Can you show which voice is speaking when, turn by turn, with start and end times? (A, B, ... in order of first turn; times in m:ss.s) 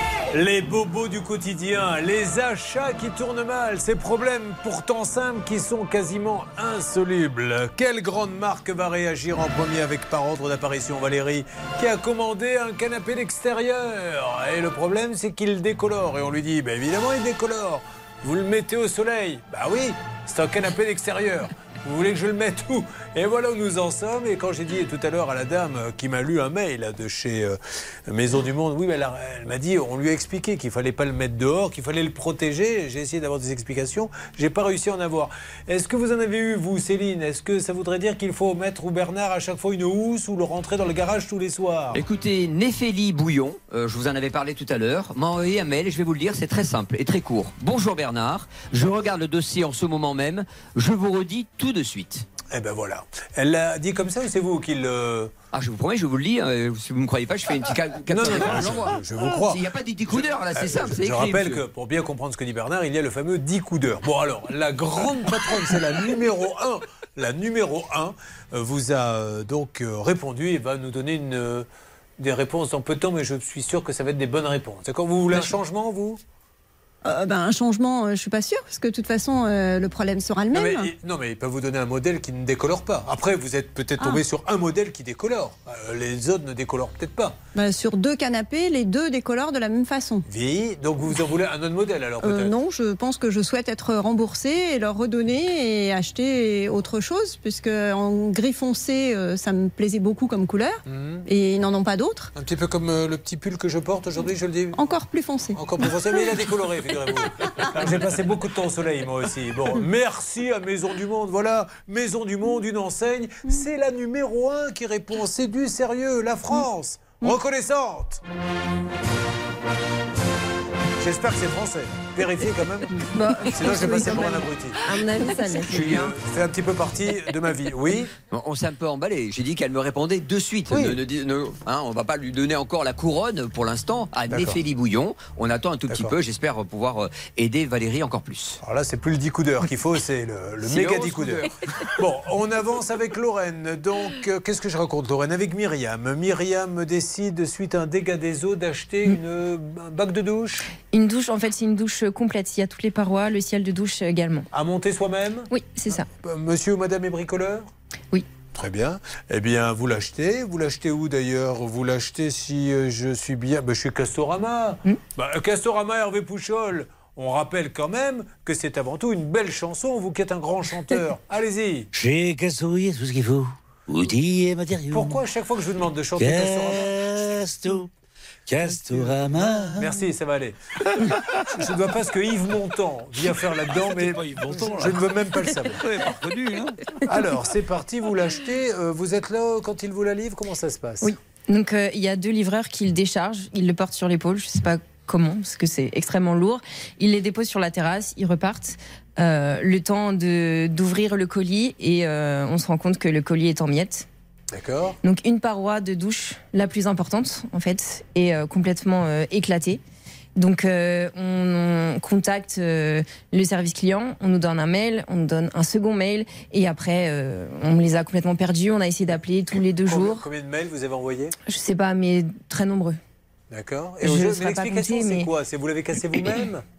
0:00.3-0:42.0 A
0:41.9-0:52.3 B
0:52.5-0:55.3 A
0:55.5-1:01.6 B
0:58.1-0:59.6 A
1:00.1-1:11.7 A
1:12.2-1:16.2 A
1:17.0-1:20.9 C
1:20.5-1:27.4 A
1:27.6-1:30.3 C
1:30.3-1:32.5 A
1:32.2-1:42.3 C
1:40.9-1:41.3 A
1:42.4-1:44.8 A
1:44.8-1:46.5 C
1:45.5-1:58.2 A
2:01.0-2:04.8 A
2:03.1-2:06.0 D
2:05.6-2:08.1 A
2:08.3-2:18.6 B
2:10.7-2:11.0 A
2:14.3-2:14.6 A
2:15.9-2:16.2 A
2:18.6-2:30.7 A
2:20.6-2:21.5 B
2:30.9-2:34.5 E
2:34.5-2:37.7 A
2:35.5-2:36.1 E
2:38.5-2:51.9 A
2:51.9-2:55.2 F
2:54.9-2:57.0 A
2:56.2-2:57.9 F
2:58.5-3:00.0 F
2:58.7-3:05.8 A
3:03.7-3:06.9 F
3:07.1-3:11.1 A
3:11.0-3:24.1 E
3:24.5-3:25.0 A
3:25.0-3:29.8 E
3:30.4-3:40.3 E
3:39.9-3:41.4 A
3:41.5-3:43.0 E
3:43.5-3:46.6 A
3:44.0-3:45.3 E